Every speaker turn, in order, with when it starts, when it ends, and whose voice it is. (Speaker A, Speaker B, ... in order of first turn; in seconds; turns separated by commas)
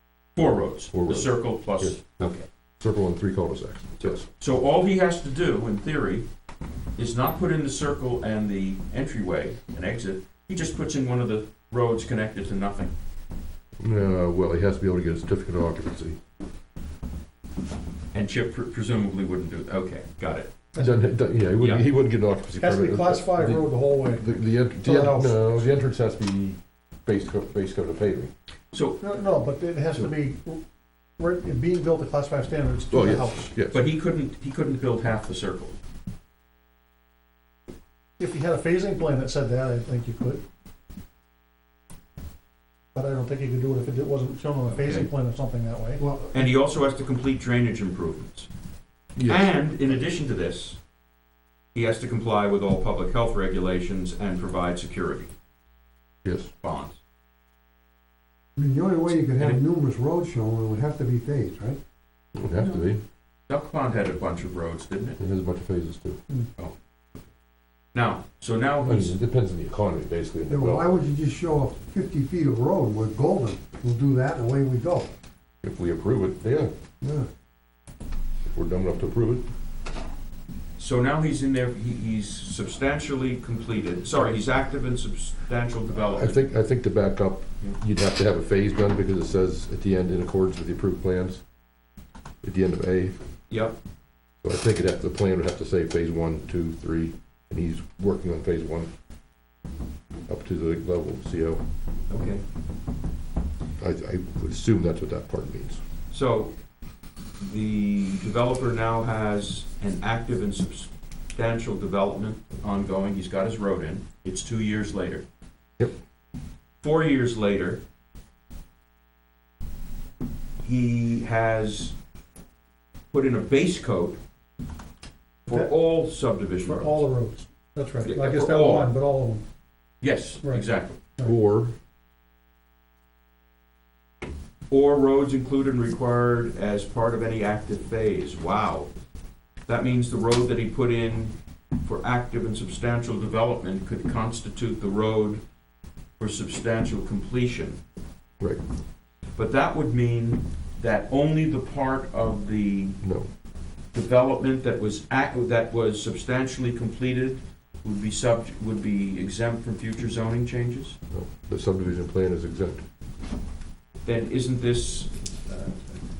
Speaker A: 0.4-2.5, Speaker B: 0.9-2.1, Speaker B: 2.8-4.2, Speaker A: 4.0-6.3, Speaker A: 7.0-12.9, Speaker B: 13.8-16.2, Speaker A: 18.1-20.5, Speaker B: 20.8-28.3, Speaker A: 21.6-21.8, Speaker C: 22.6-25.6, Speaker A: 28.7-29.0, Speaker C: 29.0-30.6, Speaker C: 31.2-33.5, Speaker B: 32.9-33.9, Speaker A: 33.7-35.8, Speaker C: 38.2-40.4, Speaker C: 43.0-46.0, Speaker A: 44.8-45.1, Speaker D: 46.0-46.5, Speaker A: 46.3-48.5, Speaker B: 49.2-49.5, Speaker A: 49.3-50.8, Speaker A: 51.7-55.3, Speaker B: 56.2-56.5, Speaker A: 56.6-57.0, Speaker D: 58.6-61.8, Speaker A: 59.2-59.6, Speaker B: 62.4-63.0, Speaker A: 62.6-62.8, Speaker A: 63.5-65.2, Speaker B: 65.2-66.2, Speaker A: 67.9-69.2, Speaker B: 68.8-70.9, Speaker D: 70.5-75.1, Speaker B: 75.6-76.7, Speaker D: 77.0-77.3, Speaker B: 78.5-79.4, Speaker A: 80.8-86.4, Speaker B: 86.0-91.4, Speaker B: 92.4-93.1, Speaker A: 93.5-93.8, Speaker B: 94.4-98.9, Speaker B: 100.3-101.6, Speaker A: 102.1-102.4, Speaker B: 103.8-105.8, Speaker A: 106.1-106.5, Speaker A: 107.4-115.2, Speaker A: 116.8-117.8, Speaker A: 120.6-121.9, Speaker A: 123.1-124.2, Speaker A: 125.5-127.1, Speaker C: 126.7-129.4, Speaker A: 128.1-128.9, Speaker A: 130.0-131.0, Speaker B: 131.2-131.7, Speaker A: 134.7-138.9, Speaker A: 139.7-145.4, Speaker A: 146.2-147.8, Speaker A: 149.4-153.0, Speaker B: 153.0-153.3, Speaker A: 153.9-161.0, Speaker B: 161.1-162.8, Speaker A: 164.1-165.7